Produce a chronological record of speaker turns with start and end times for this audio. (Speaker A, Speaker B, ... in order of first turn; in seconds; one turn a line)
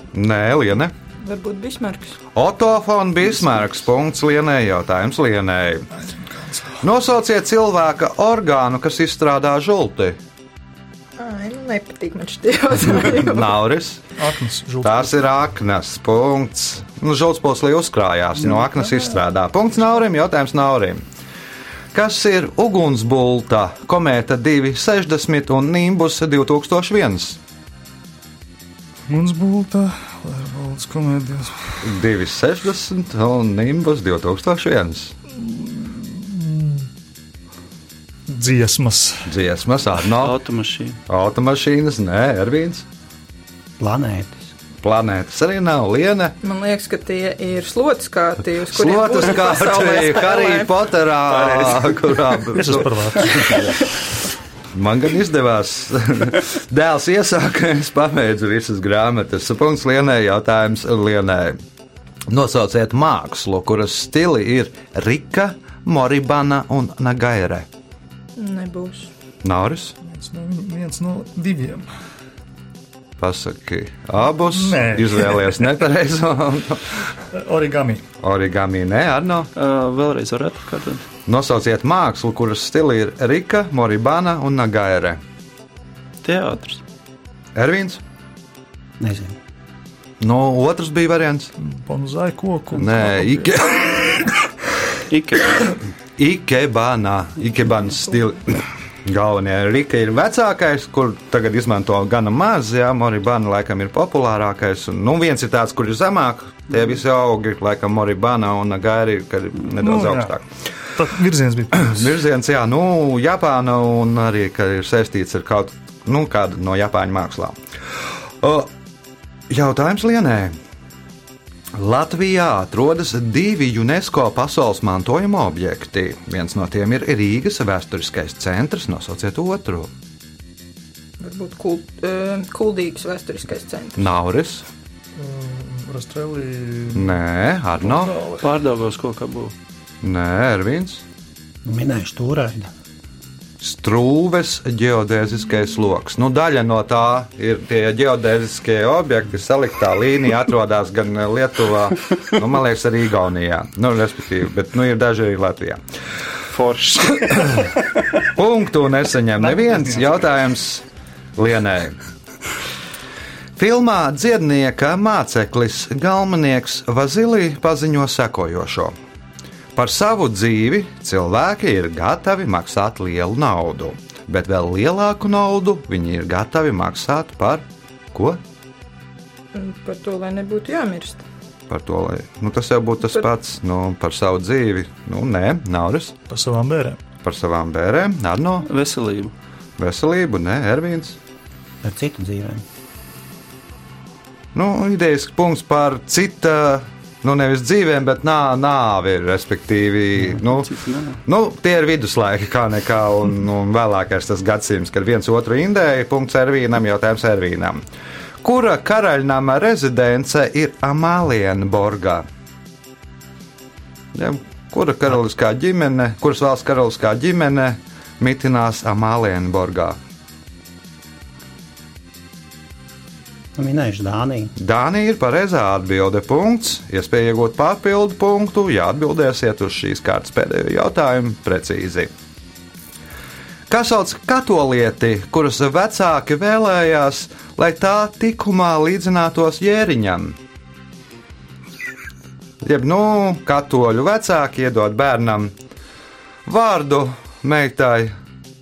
Speaker A: 0.1-0.9
Speaker B: 1.2-2.2
Speaker A: 2.4-5.9
Speaker C: 6.0-6.8
Speaker A: 6.8-10.2
Speaker B: 11.2-13.6
Speaker A: 13.0-14.0
Speaker C: 14.2-15.1
Speaker A: 14.8-21.0
Speaker C: 18.6-19.0
Speaker A: 21.9-27.4
Speaker C: 29.1-31.9
Speaker A: 31.8-35.1
Speaker C: 35.4-36.9
Speaker C: 38.3-39.3
Speaker A: 39.3-40.4
Speaker D: 40.2-41.0
Speaker A: 41.1-42.9
Speaker E: 43.8-44.5
Speaker A: 44.8-46.4
Speaker B: 46.4-50.7
Speaker A: 48.7-53.8
Speaker C: 52.5-53.8
Speaker A: 54.7-61.6
Speaker A: 62.3-67.7
Speaker B: 68.4-69.1
Speaker A: 69.4-70.0
Speaker C: 70.0-71.9
Speaker A: 73.2-77.0
Speaker C: 74.5-75.5
Speaker C: 77.3-78.0
Speaker A: 78.2-79.5
Speaker D: 79.6-81.1
Speaker A: 81.3-85.2
Speaker D: 86.2-86.8
Speaker A: 87.5-88.0
Speaker E: 89.0-89.4
Speaker A: 90.2-91.5
Speaker C: 91.6-93.9
Speaker A: 92.8-94.2
Speaker D: 95.1-95.8
Speaker A: 96.2-110.4
Speaker C: 109.8-110.4
Speaker C: 111.0-112.1
Speaker A: 111.7-117.6
Speaker A: 118.4-118.7
Speaker A: 119.5-120.5
Speaker A: 121.7-129.9
Speaker B: 131.2-134.1
Speaker A: 134.0-134.7
Speaker C: 135.2-137.2
Speaker A: 136.9-138.2
Speaker C: 137.9-138.5
Speaker D: 138.4-139.5
Speaker A: 140.0-141.0
Speaker E: 141.7-142.7
Speaker A: 143.6-155.8
Speaker D: 156.5-158.0
Speaker A: 158.3-160.8
Speaker C: 159.4-160.1
Speaker A: 161.4-162.0
Speaker A: 163.6-168.9
Speaker A: 169.8-178.4
Speaker B: 179.5-181.2
Speaker A: 181.7-186.2
Speaker C: 186.3-187.0
Speaker A: 187.2-188.7
Speaker D: 188.7-189.3
Speaker A: 189.8-191.2
Speaker E: 191.8-192.6
Speaker A: 194.5-200.7
Speaker D: 200.2-201.2
Speaker A: 201.2-207.8
Speaker A: 208.4-212.2
Speaker A: 214.1-220.0
Speaker E: 223.6-224.5
Speaker A: 224.6-232.1
Speaker A: 233.7-240.4
Speaker A: 242.6-245.5
Speaker A: 246.5-248.1